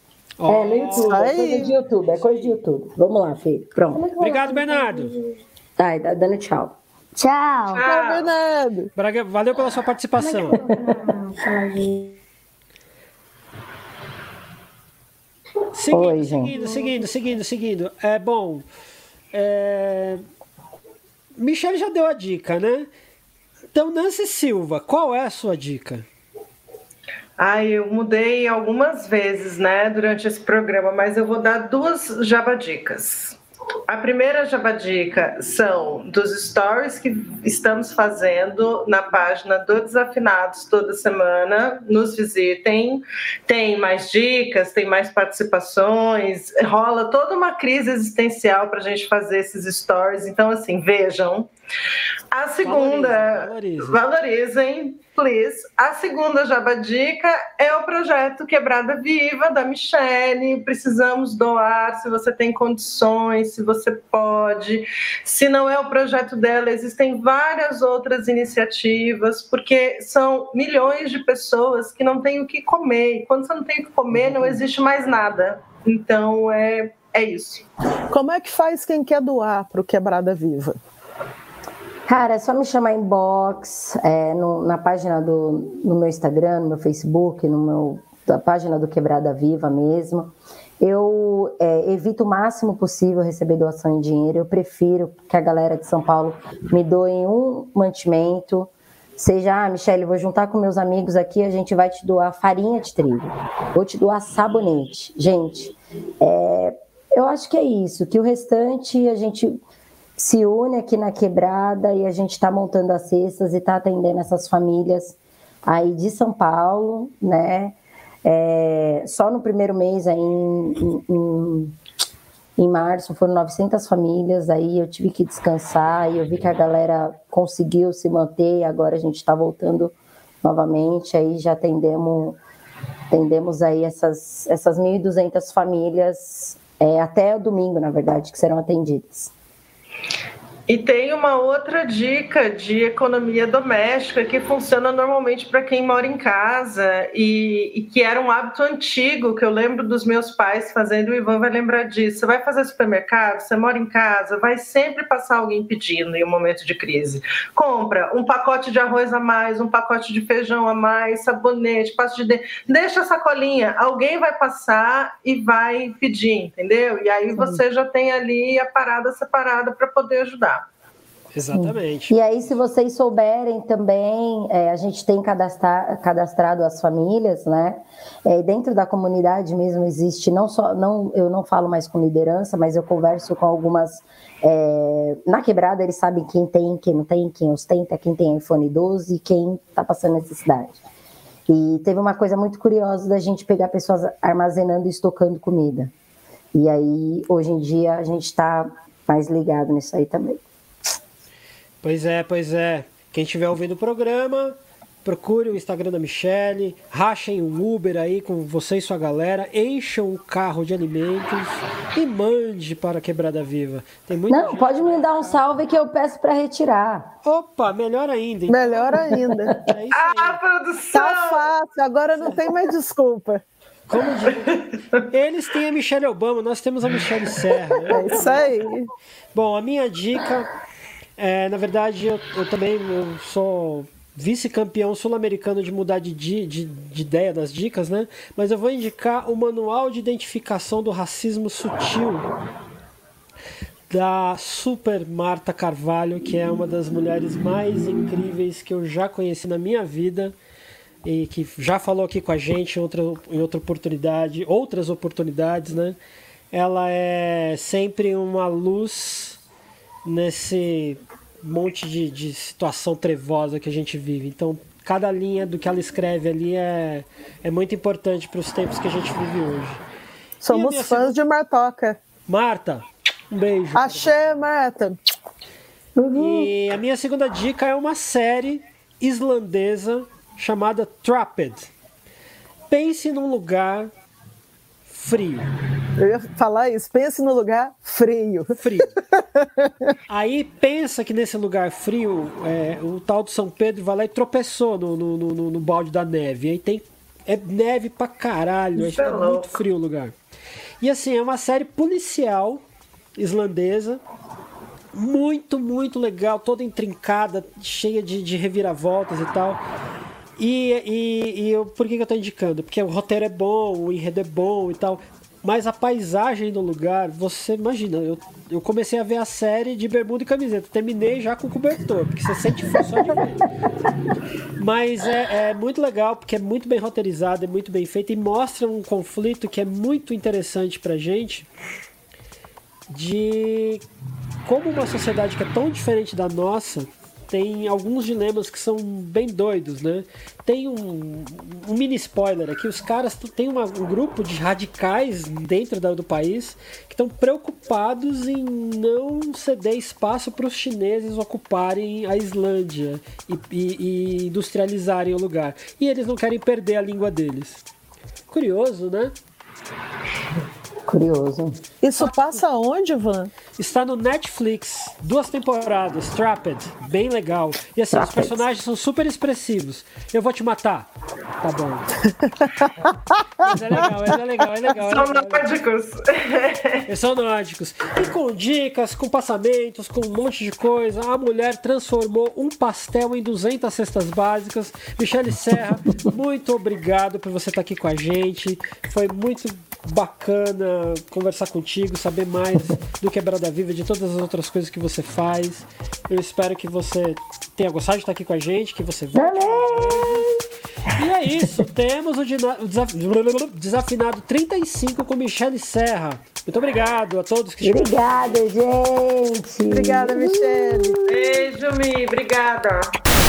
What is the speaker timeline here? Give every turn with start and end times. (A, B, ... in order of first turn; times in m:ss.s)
0:00.4-0:01.7 A
0:00.5-0:04.1 B
0:00.9-0:01.7 C
0:03.9-0:05.3 D
0:04.2-0:05.1 A
0:05.8-0:06.8 B
0:07.2-0:07.8 D
0:07.7-0:08.3 E
0:07.8-0:08.9 C
0:09.0-0:10.7 A
0:10.2-0:12.1 D
0:15.7-0:18.6 A
0:15.9-0:16.5 B
0:16.7-0:16.9 D
0:19.3-0:20.2 A
0:21.4-0:22.9 A
0:23.7-0:26.0 A
0:27.4-0:51.5 E
0:52.3-1:17.7 E
0:52.6-0:54.0 A
1:18.1-1:20.8 C
1:22.1-1:49.6 B
1:50.2-2:01.7 B
2:02.6-2:12.4 B
2:13.1-2:19.3 B
2:20.7-2:50.7 E
2:51.3-2:52.2 A
2:51.5-3:10.8 B
3:11.5-3:15.9 B
3:16.5-3:20.4 B
3:21.8-3:35.4 A
3:34.3-3:37.1 B
3:37.2-3:40.4 A
3:38.5-3:39.6 C
3:39.9-3:41.4 E
3:40.9-3:43.4 C
3:43.9-3:48.5 A
3:44.3-3:45.0 E
3:47.9-3:48.9 C
3:49.3-3:50.5 A
3:51.2-4:02.3 A
4:03.9-4:10.3 A
4:11.0-4:16.0 A
4:16.5-4:19.4 A
4:20.0-4:29.8 A
4:30.4-4:32.0 C
4:30.5-4:31.2 A
4:32.3-4:34.1 A
4:33.7-4:35.0 C
4:36.0-4:36.5 B
4:36.1-4:41.7 A
4:42.7-4:43.9 A
4:44.9-4:45.5 A
4:46.0-4:49.9 C
4:48.6-4:48.9 A
4:50.1-5:00.1 A
4:58.8-4:59.6 E
5:00.8-5:02.6 A
5:03.2-5:04.0 A
5:04.9-5:09.6 A
5:10.4-5:23.5 A
5:24.6-5:31.5 A
5:32.9-5:33.8 A
5:34.4-5:57.6 A
5:58.3-5:59.1 A
6:00.8-6:01.6 B
6:01.8-6:03.3 C
6:03.6-6:10.9 A
6:07.9-6:08.4 B
6:11.4-6:12.1 A
6:13.4-6:15.4 A
6:14.7-6:16.9 E
6:16.9-6:40.3 A
6:39.1-6:41.5 B
6:40.9-6:48.4 A
6:47.6-6:50.9 B
6:49.7-6:50.9 C
6:51.1-6:53.0 E